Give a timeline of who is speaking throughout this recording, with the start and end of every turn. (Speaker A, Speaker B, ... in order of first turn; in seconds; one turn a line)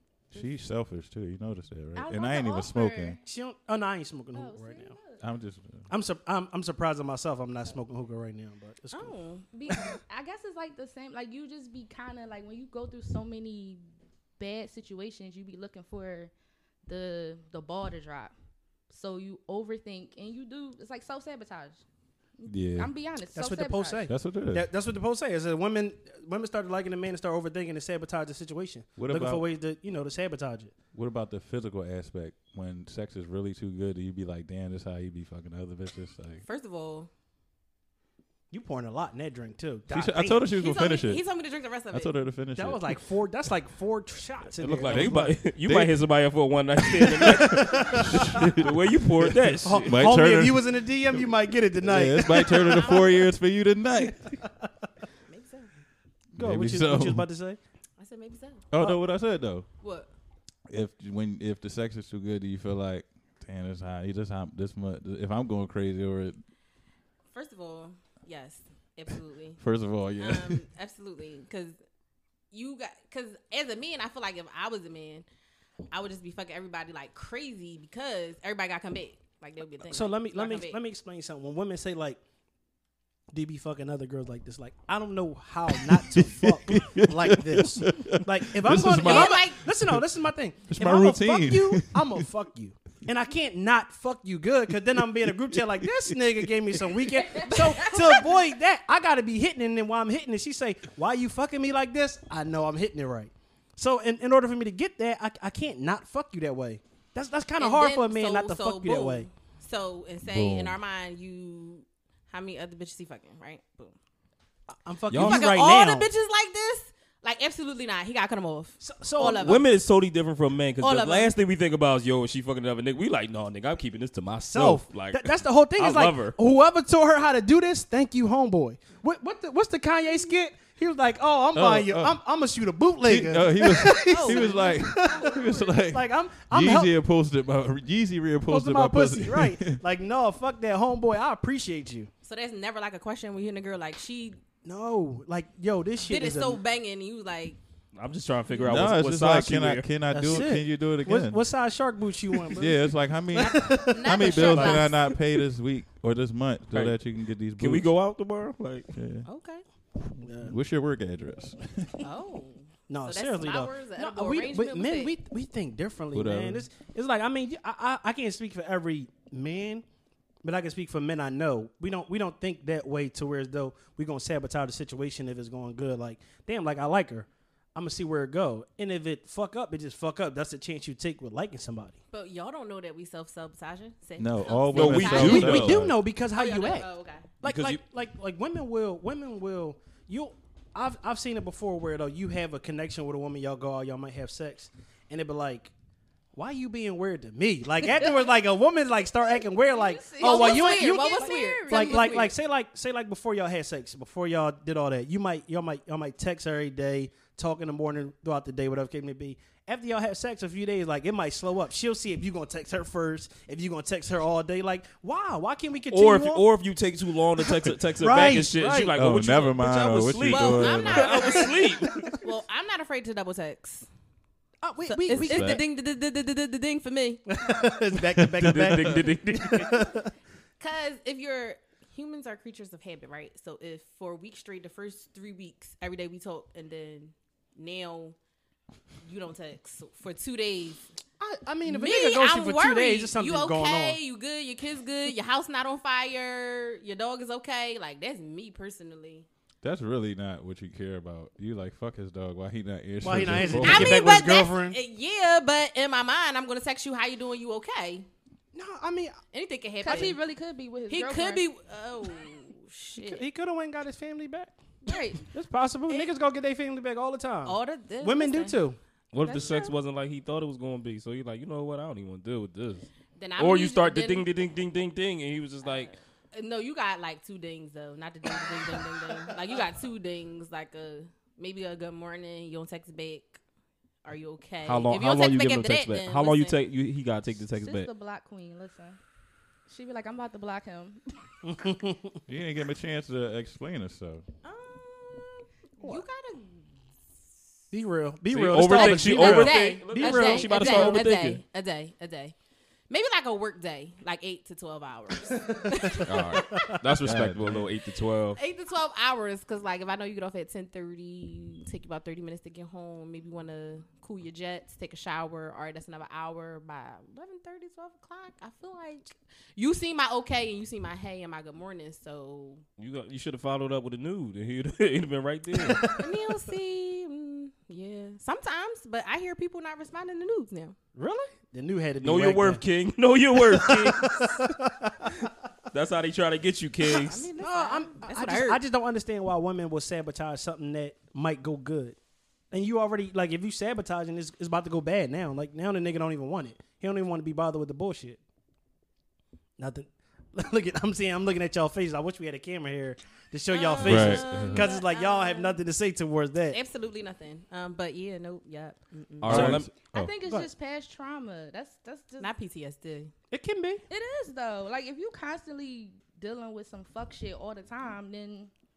Speaker A: 0.3-3.2
Speaker B: 1.9-3.2
Speaker C: 3.2-4.9
Speaker B: 4.3-5.2
Speaker A: 5.2-5.9
Speaker C: 5.9-9.2
Speaker D: 8.9-9.4
Speaker B: 9.5-13.8
Speaker B: 14.4-16.3
Speaker B: 16.9-18.3
Speaker B: 18.9-21.8
Speaker B: 22.4-24.1
Speaker A: 22.5-22.9
Speaker C: 23.4-30.7
Speaker A: 24.1-24.7
Speaker A: 29.0-29.4
Speaker A: 30.9-36.4
Speaker D: 36.4-37.1
Speaker C: 38.5-40.5
Speaker A: 39.9-41.2
Speaker D: 40.5-42.1
Speaker A: 41.9-43.0
Speaker C: 42.6-45.4
Speaker E: 44.6-50.0
Speaker A: 44.9-45.9
Speaker C: 47.0-48.6
Speaker A: 47.0-50.6
Speaker C: 49.6-53.1
Speaker A: 51.8-54.3
Speaker D: 52.5-53.3
Speaker C: 54.0-54.7
Speaker D: 55.3-55.7
Speaker A: 56.4-57.2
Speaker C: 56.4-57.6
Speaker D: 58.0-58.7
Speaker A: 58.7-59.7
Speaker D: 59.8-60.1
Speaker A: 60.7-66.4
Speaker D: 67.3-69.6
Speaker A: 69.6-70.6
Speaker D: 70.2-71.8
Speaker D: 72.5-75.2
Speaker D: 75.9-80.8
Speaker C: 79.9-82.2
Speaker C: 83.3-109.3
Speaker A: 86.0-90.0
Speaker D: 89.0-89.7
Speaker A: 90.7-92.2
Speaker A: 95.2-96.5
Speaker D: 97.4-98.3
Speaker D: 107.6-114.0
Speaker A: 110.2-110.8
Speaker C: 114.8-116.1
Speaker E: 115.1-115.6
Speaker D: 115.2-119.7
Speaker C: 118.8-119.6
Speaker E: 119.3-126.4
Speaker D: 120.8-121.3
Speaker C: 124.4-136.9
Speaker A: 131.6-132.2
Speaker A: 133.0-139.8
Speaker D: 134.0-135.7
Speaker C: 138.5-142.1
Speaker D: 142.2-144.4
Speaker C: 144.7-146.6
Speaker D: 146.1-147.6
Speaker E: 147.9-149.9
Speaker D: 148.5-148.9
Speaker A: 148.7-151.4
Speaker C: 150.1-154.9
Speaker A: 152.5-157.9
Speaker D: 153.4-155.1
Speaker E: 157.6-159.0
Speaker A: 158.9-159.3
Speaker D: 159.2-159.6
Speaker A: 160.0-162.1
Speaker C: 160.2-160.6
Speaker D: 162.0-165.2
Speaker C: 162.9-169.8
Speaker A: 166.1-166.7
Speaker C: 170.4-182.0
Speaker D: 182.1-187.3
Speaker A: 184.2-186.0
Speaker E: 184.7-185.9
Speaker C: 185.0-186.9
Speaker E: 187.4-187.8
Speaker C: 187.4-195.7
Speaker C: 196.3-216.5
Speaker B: 199.3-202.3
Speaker D: 200.2-202.4
Speaker E: 215.9-222.2
Speaker C: 217.4-219.0
Speaker A: 218.9-221.2
Speaker D: 220.2-223.9
Speaker C: 221.2-222.2
Speaker C: 224.6-225.6
Speaker D: 224.8-227.2
Speaker A: 225.3-225.6
Speaker C: 227.3-230.1
Speaker A: 228.2-229.0
Speaker E: 228.4-229.7
Speaker D: 230.6-238.2
Speaker D: 239.1-240.9
Speaker C: 241.2-244.0
Speaker D: 241.7-249.3
Speaker A: 249.6-254.2
Speaker C: 253.0-254.8
Speaker D: 253.6-258.1
Speaker C: 258.5-259.2
Speaker D: 259.3-260.2
Speaker B: 259.8-261.4
Speaker D: 260.9-263.2
Speaker C: 263.0-264.5
Speaker B: 264.9-265.3
Speaker C: 265.3-268.8
Speaker D: 267.4-268.6
Speaker E: 269.1-272.9
Speaker D: 269.2-269.7
Speaker D: 273.2-274.4
Speaker E: 273.4-275.9
Speaker D: 275.6-283.4
Speaker D: 284.0-286.6
Speaker E: 284.6-287.9
Speaker B: 287.6-289.0
Speaker B: 289.7-291.1
Speaker C: 291.4-292.2
Speaker A: 292.3-294.2
Speaker D: 294.4-296.7
Speaker C: 297.7-301.1
Speaker E: 298.3-301.4
Speaker D: 298.6-302.4
Speaker D: 302.9-306.6
Speaker C: 305.3-306.9
Speaker E: 306.0-308.4
Speaker A: 307.0-307.7
Speaker D: 308.4-322.6
Speaker E: 322.8-325.9
Speaker C: 325.6-326.1
Speaker D: 325.8-330.8
Speaker C: 331.0-332.6
Speaker E: 332.0-334.5
Speaker C: 333.4-335.3
Speaker E: 335.7-337.3
Speaker D: 336.9-338.6
Speaker C: 337.4-342.0
Speaker C: 342.5-348.2
Speaker C: 349.6-356.6
Speaker D: 353.5-355.6
Speaker A: 353.8-354.6
Speaker D: 356.5-359.6
Speaker E: 359.2-359.7
Speaker A: 359.2-360.1
Speaker B: 359.9-362.3
Speaker D: 362.2-363.1
Speaker C: 363.3-363.8
Speaker B: 363.9-368.5